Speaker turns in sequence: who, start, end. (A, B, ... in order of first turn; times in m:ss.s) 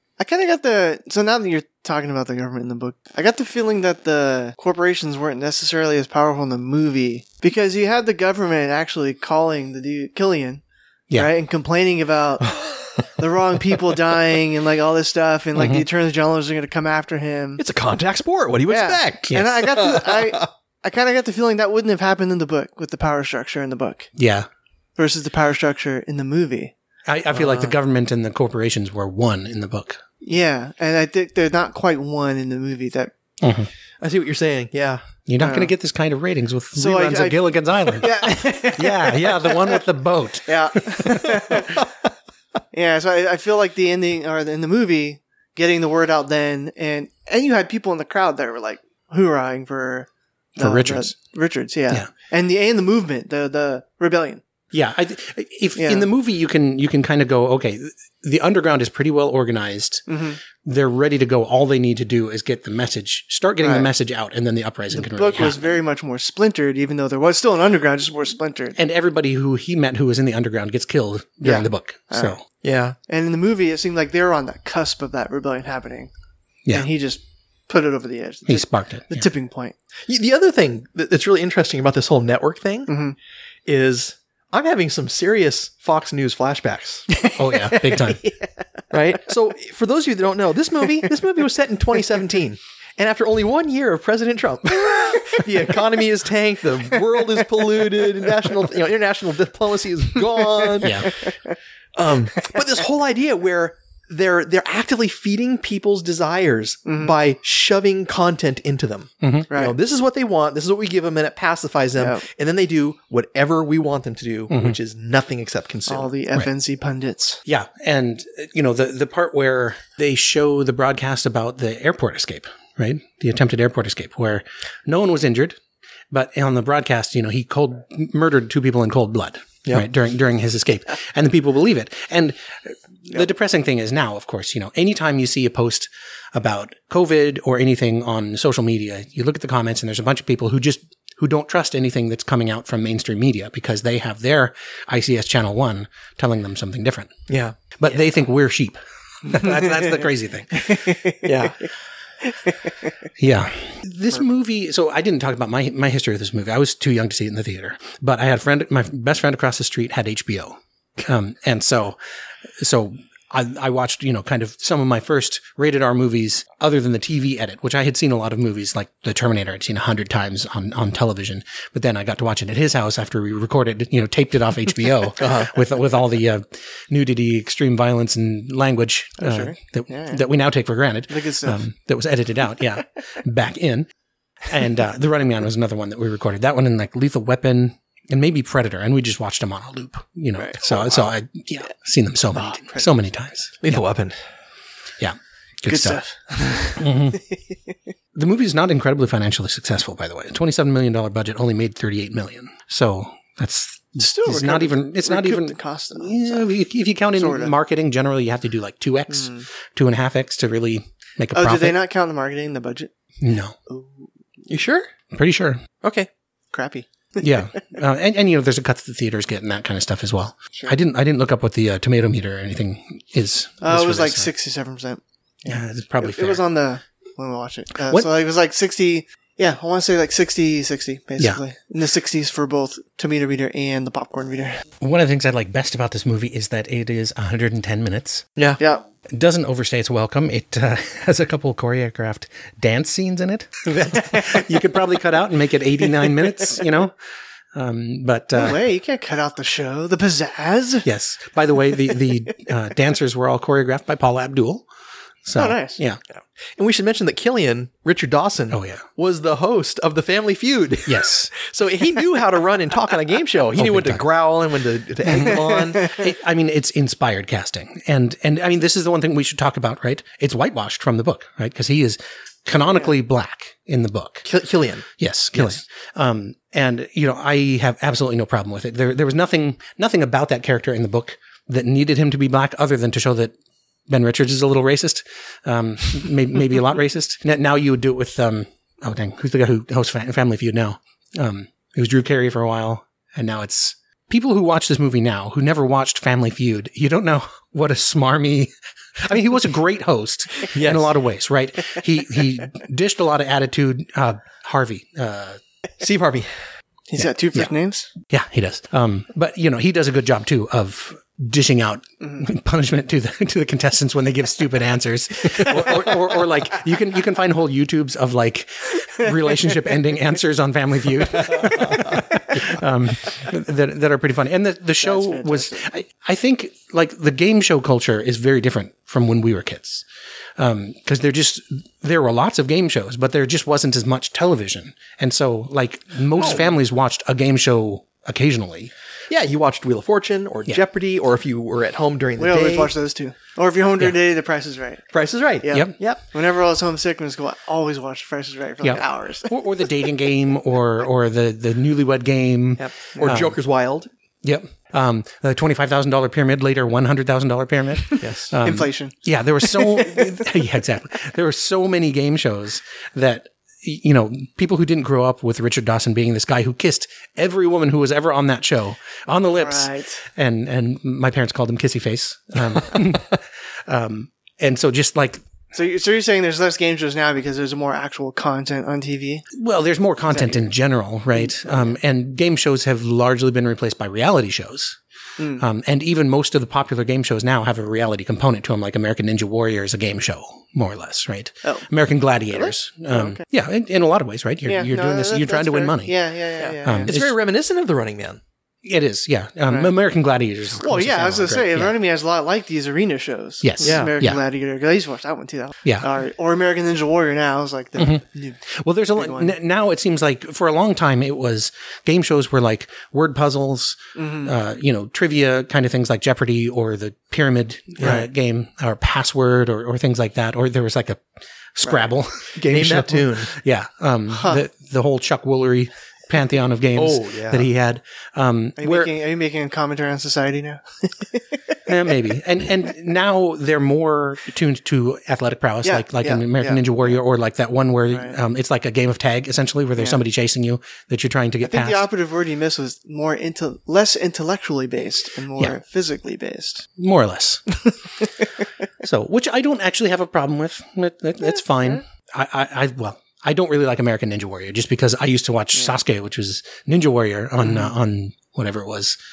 0:00.2-0:10.6 A
0:11.1-0:17.6 A
0:15.6-0:15.9 B
0:17.6-0:20.5 C
0:18.7-0:24.1 A
0:24.2-0:24.5 B
0:25.0-0:26.7 A
0:27.1-0:30.0 B
0:27.3-0:27.7 C
0:30.2-0:33.1 A
0:33.4-0:33.7 B
0:34.0-0:35.1 C
0:35.3-0:41.6 B
0:35.4-0:35.7 A
0:36.8-0:39.8 A
0:40.5-0:41.9 A
0:42.7-0:54.4 A
0:50.6-0:51.1 B
0:54.7-1:00.1 B
0:55.8-0:56.1 A
1:00.1-1:00.4 A
1:00.6-1:05.7 B
1:03.6-1:03.9 A
1:04.9-1:08.8 A
1:08.8-1:12.4 B
1:11.4-1:12.4 A
1:12.6-1:13.0 C
1:13.1-1:16.1 A
1:16.7-1:19.8 A
1:18.5-1:19.3 B
1:20.1-1:22.9 C
1:22.9-1:23.2 A
1:23.7-1:27.1 C
1:27.1-1:28.5 A
1:27.4-1:28.2 B
1:28.9-1:41.1 C
1:40.4-1:41.5 A
1:40.8-1:41.1 B
1:42.0-1:56.1 C
1:46.9-1:47.1 A
1:49.2-1:49.5 B
1:49.5-1:49.8 A
1:52.0-1:52.2 A
1:55.9-1:57.4 A
1:57.5-2:05.6 B
2:06.1-2:27.1 B
2:27.3-2:27.6 C
2:27.8-2:30.8 B
2:30.6-2:31.2 A
2:31.2-2:31.6 C
2:32.2-2:32.6 A
2:33.2-2:42.0 B
2:42.6-3:03.9 B
2:55.2-2:55.5 C
2:59.2-3:00.2 A
3:01.1-3:01.6 A
3:04.4-3:13.8 B
3:10.4-3:10.9 A
3:12.4-3:12.9 A
3:13.6-3:14.2 C
3:15.0-3:16.0 B
3:15.7-3:17.2 A
3:16.7-3:17.2 B
3:18.2-3:31.8 B
3:24.0-3:26.5 A
3:27.2-3:27.5 A
3:29.1-3:29.5 A
3:31.3-3:32.9 A
3:33.2-3:33.6 B
3:33.7-3:34.1 A
3:34.5-3:34.9 C
3:35.1-3:35.6 B
3:35.8-3:36.1 C
3:36.5-3:37.6 A
3:37.2-3:44.3 B
3:43.6-3:54.6 A
3:45.5-3:46.4 B
3:54.8-3:58.2 B
3:59.1-4:07.0 B
4:07.6-4:08.6 B
4:08.4-4:10.9 A
4:10.8-4:14.7 B
4:15.2-4:16.0 B
4:15.4-4:15.8 A
4:16.6-4:26.0 C
4:18.5-4:18.8 B
4:20.9-4:21.3 B
4:23.6-4:24.0 B
4:25.1-4:34.3 B
4:34.3-4:35.6 C
4:35.0-4:43.3 B
4:43.9-5:05.4 B
5:00.5-5:00.9 C
5:05.8-5:06.3 C
5:06.9-5:07.9 A
5:07.0-5:07.5 B
5:08.1-5:29.8 B
5:24.8-5:25.6 A
5:30.4-5:38.7 B
5:39.1-5:42.7 C
5:42.2-5:44.8 A
5:44.9-5:46.0 C
5:45.4-5:49.3 A
5:48.6-5:53.4 B
5:52.6-5:53.9 C
5:53.0-5:53.2 A
5:54.2-6:15.2 B
5:57.9-6:00.2 A
5:58.0-5:58.3 C
6:09.3-6:10.0 A
6:15.5-6:19.2 A
6:19.3-6:24.8 B
6:20.1-6:20.5 A
6:21.2-6:21.8 A
6:25.2-6:25.4 A
6:25.4-6:36.0 B
6:32.3-6:33.2 A
6:34.5-6:36.9 A
6:36.4-6:38.2 C
6:36.6-6:37.1 B
6:38.6-6:41.8 B
6:40.6-6:48.4 A
6:43.4-6:44.2 B
6:43.6-6:43.9 C
6:47.8-7:01.0 B
6:49.0-6:49.4 A
6:54.0-6:54.3 A
6:57.8-6:58.1 C
7:01.6-7:08.9 B
7:02.4-7:03.3 C
7:04.1-7:04.4 A
7:06.8-7:07.5 C
7:08.6-7:11.3 A
7:11.7-7:21.9 B
7:15.6-7:16.7 A
7:17.9-7:18.2 A
7:21.4-7:26.7 A
7:26.8-7:27.4 B
7:28.8-7:39.0 B
7:37.4-7:37.7 A